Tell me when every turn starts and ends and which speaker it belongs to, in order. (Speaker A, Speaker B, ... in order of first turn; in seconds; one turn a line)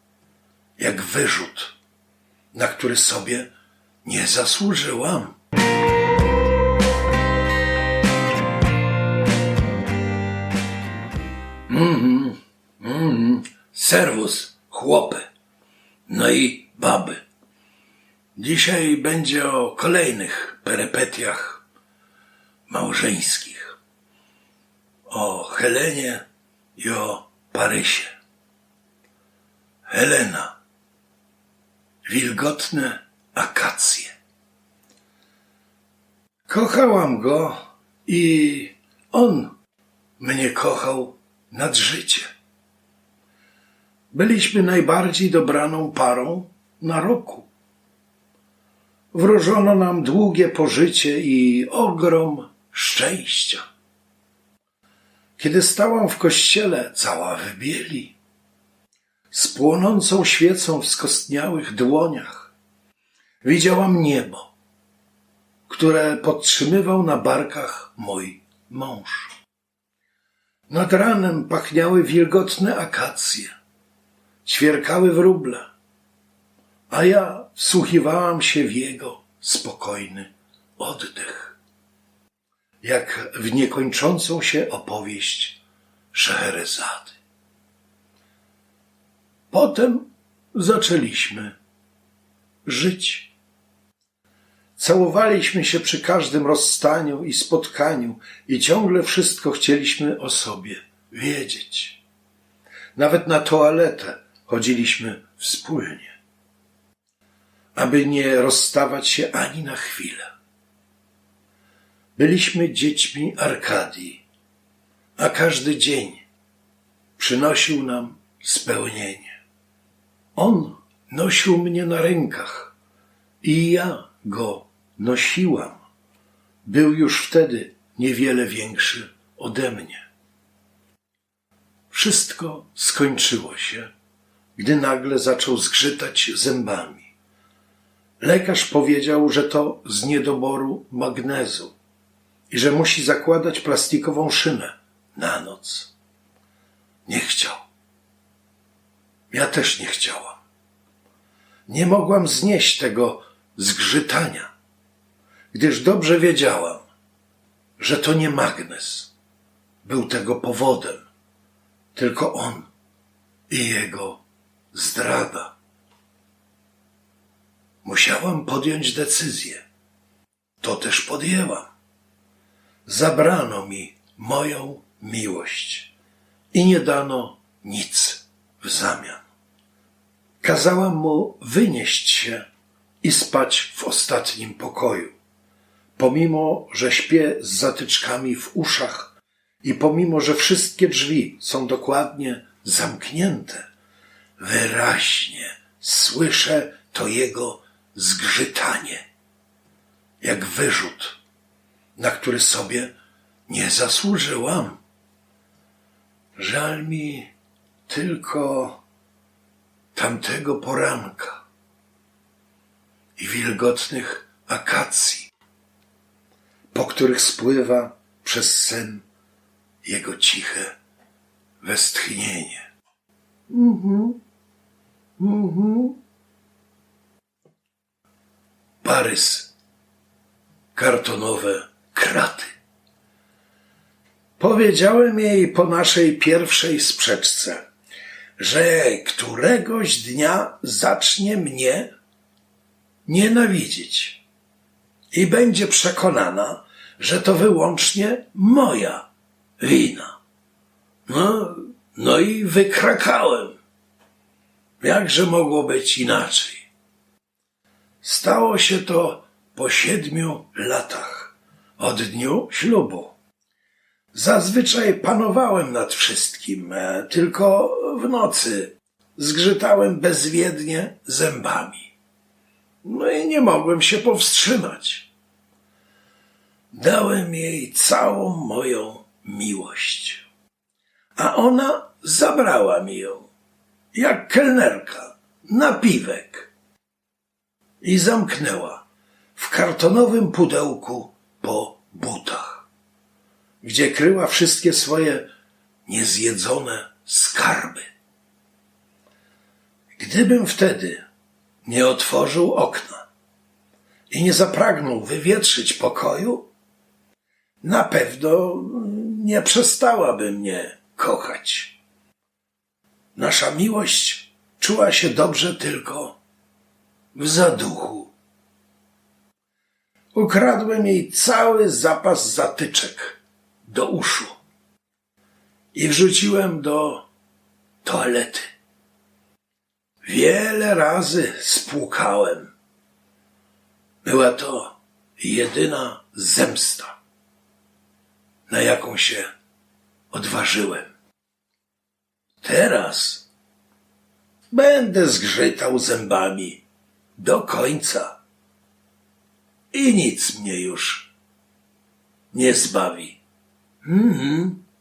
Speaker A: 0.8-1.8
Speaker A: 2.5-3.5
Speaker A: 4.0-5.4
Speaker A: 11.7-15.3
Speaker A: 16.1-17.2
Speaker A: 18.4-21.6
Speaker A: 22.7-23.8
Speaker A: 25.1-26.2
Speaker A: 26.8-28.1
Speaker A: 29.9-30.5
Speaker A: 32.0-34.1
Speaker A: 36.5-39.5
Speaker A: 40.2-42.3
Speaker A: 44.1-47.5
Speaker A: 49.1-53.6
Speaker A: 55.4-58.1
Speaker A: 59.3-62.5
Speaker A: 63.4-64.5
Speaker A: 65.7-69.3
Speaker A: 70.7-73.5
Speaker A: 74.4-75.7
Speaker A: 76.9-81.6
Speaker A: 82.8-85.6
Speaker A: 86.1-87.2
Speaker A: 89.5-91.5
Speaker A: 92.6-93.3
Speaker A: 94.8-102.0
Speaker A: 103.0-106.2
Speaker A: 107.7-110.3
Speaker A: 112.2-114.2
Speaker A: 115.2-116.2
Speaker A: 117.2-119.4
Speaker A: 120.3-122.7
Speaker A: 123.4-125.8
Speaker A: 126.6-130.1
Speaker A: 131.9-133.9
Speaker A: 134.6-137.1
Speaker A: 138.2-141.7
Speaker A: 142.5-145.9
Speaker A: 147.1-147.6
Speaker A: 149.3-150.4
Speaker A: 151.7-154.5
Speaker A: 155.5-156.9
Speaker A: 157.8-159.1
Speaker A: 159.8-161.1
Speaker A: 161.9-162.7
Speaker A: 163.5-164.2
Speaker A: 164.7-165.5
Speaker A: 167.8-169.6
Speaker A: 170.6-171.7
Speaker A: 172.8-175.9
Speaker A: 176.5-179.2
Speaker A: 180.4-182.4
Speaker A: 183.0-185.1
Speaker A: 186.0-193.7
Speaker A: 194.4-199.0
Speaker A: 200.2-201.2
Speaker A: 202.0-202.9
Speaker A: 203.5-204.8
Speaker A: 206.4-207.3
Speaker A: 207.9-208.8
Speaker A: 209.9-211.4
Speaker A: 213.2-215.3
Speaker A: 216.7-219.0
Speaker A: 219.8-220.7
Speaker A: 221.6-222.7
Speaker A: 223.5-224.2
Speaker A: 225.2-226.0
Speaker A: 228.8-229.5
Speaker A: 230.7-232.6
Speaker A: 234.4-237.6
Speaker A: 238.4-241.9
Speaker A: 243.1-244.2
Speaker A: 245.1-249.1
Speaker A: 249.6-250.2
Speaker A: 251.1-253.6
Speaker A: 254.8-256.7
Speaker A: 258.0-263.1
Speaker A: 264.1-271.9
Speaker A: 272.8-275.1
Speaker A: 276.7-280.2
Speaker A: 281.1-283.3
Speaker A: 283.9-286.5
Speaker A: 287.8-288.8
Speaker A: 289.4-292.7
Speaker A: 293.6-295.3
Speaker A: 295.9-297.9
Speaker A: 299.9-301.0
Speaker A: 301.6-303.0
Speaker A: 304.1-306.5
Speaker A: 307.6-311.8
Speaker A: 313.1-316.2
Speaker A: 317.1-318.1
Speaker A: 320.1-324.4
Speaker A: 325.7-327.1
Speaker A: 327.8-328.5
Speaker A: 330.0-332.5
Speaker A: 334.0-337.0
Speaker A: 338.5-339.3
Speaker A: 340.1-340.9
Speaker A: 342.4-343.3
Speaker A: 344.5-346.6
Speaker A: 347.2-348.2
Speaker A: 349.7-351.1
Speaker A: 352.3-353.2
Speaker A: 353.8-354.6